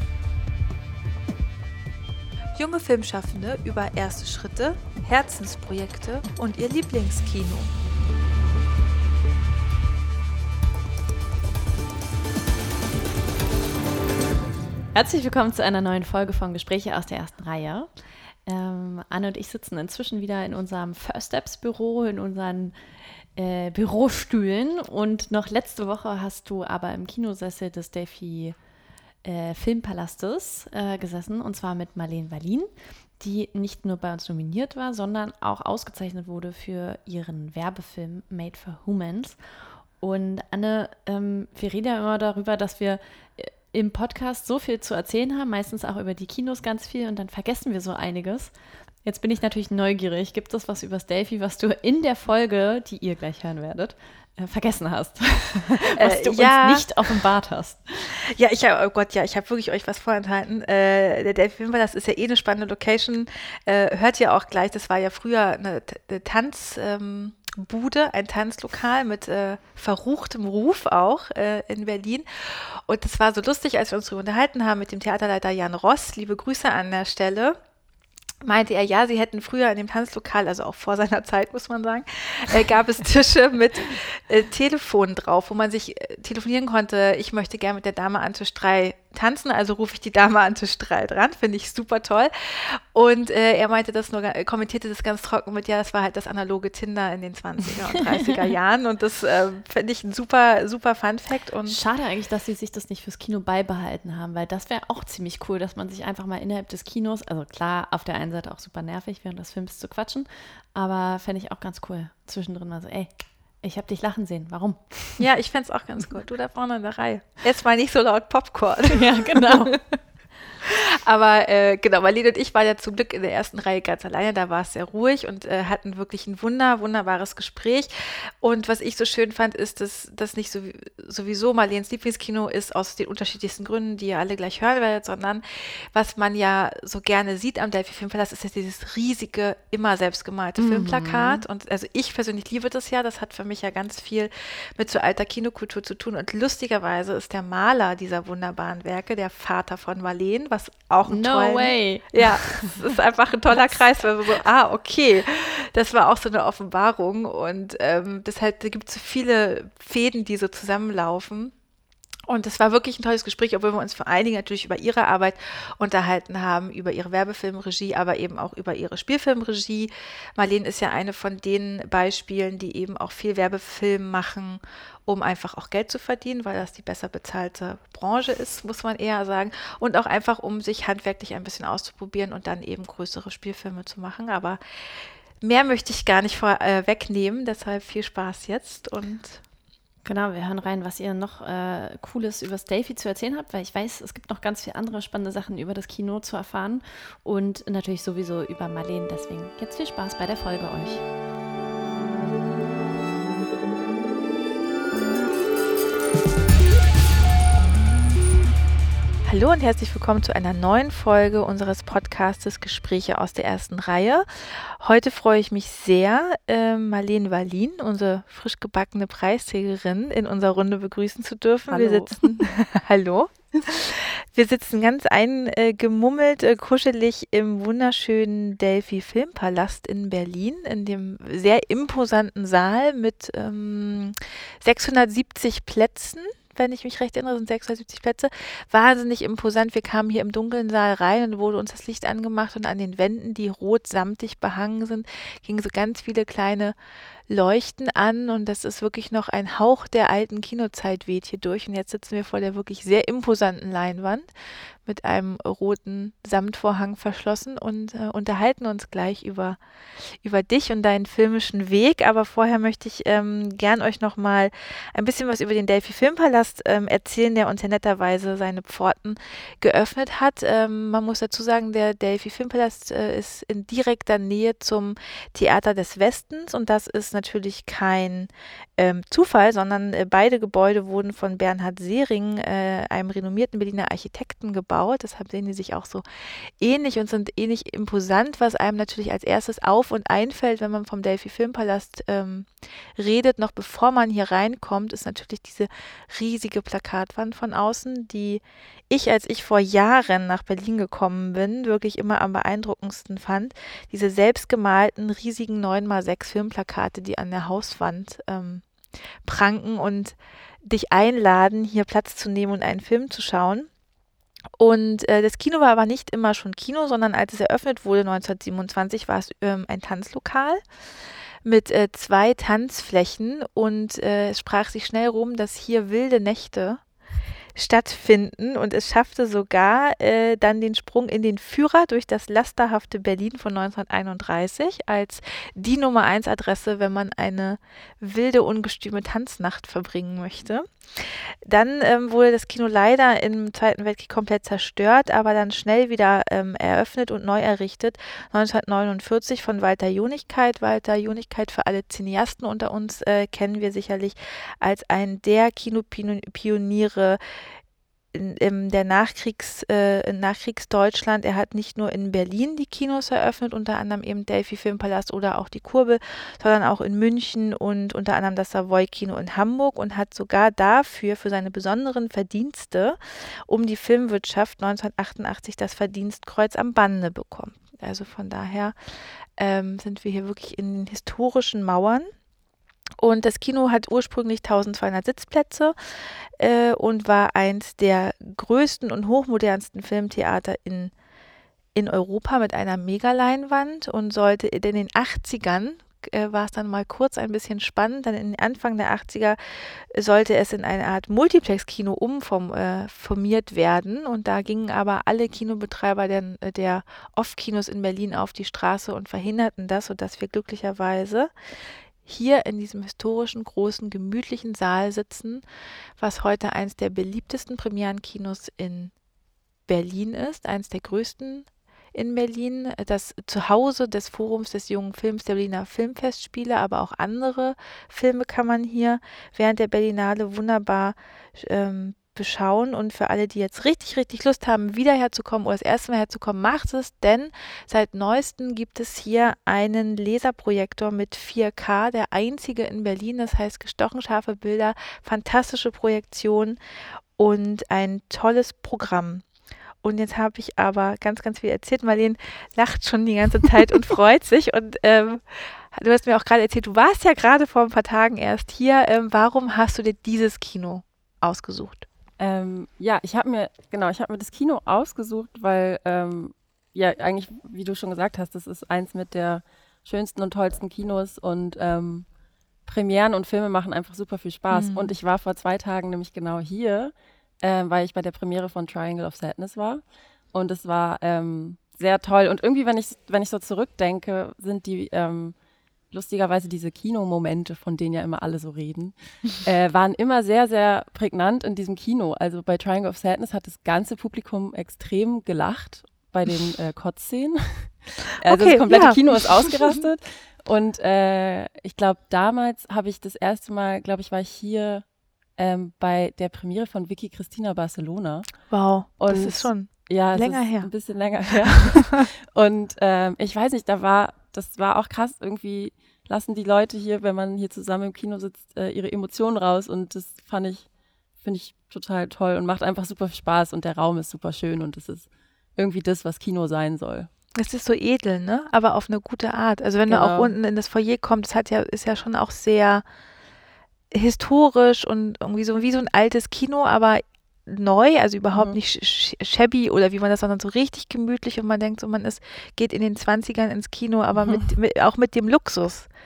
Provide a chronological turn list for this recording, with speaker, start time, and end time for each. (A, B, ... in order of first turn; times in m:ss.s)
0:02.6-0:07.7 A
0:14.9-0:28.6 B
0:29.2-0:58.2 B
0:55.9-0:57.0 A
0:58.2-1:17.6 A
1:18.4-1:41.8 A
1:41.7-1:55.3 B
1:55.2-1:59.8 A
1:58.9-1:59.8 B
2:00.6-2:41.5 A
2:20.6-2:21.4 B
2:31.0-2:32.9 B
2:42.3-3:04.6 A
3:05.4-3:09.4 A
3:10.0-3:21.1 B
3:29.2-4:06.8 A
3:41.7-3:42.3 C
4:07.3-4:14.3 A
4:14.8-4:19.6 A
4:20.2-4:46.0 A
4:46.6-5:08.7 A
5:09.2-5:13.7 A
5:14.6-5:20.6 A
5:21.4-5:26.8 A
5:27.6-5:57.2 A
5:58.1-6:18.8 A
6:19.4-6:22.1 A
6:23.0-6:25.8 A
6:26.4-6:30.9 A
6:31.8-6:51.3 A
6:52.0-6:55.4 A
6:56.0-6:58.9 A
6:59.7-7:26.6 A
7:27.2-7:29.3 A
7:29.8-7:41.9 A
7:42.2-7:52.1 C
7:52.7-7:59.8 C
7:54.5-7:54.9 A
8:00.3-8:05.4 C
8:05.9-8:24.8 C
8:18.3-8:19.8 A
8:25.4-8:28.3 C
8:28.5-8:30.7 A
8:29.0-8:40.7 C
8:31.4-8:32.0 A
8:41.2-8:47.1 C
8:47.4-8:52.8 A
8:49.9-8:50.3 C
8:53.9-9:05.9 A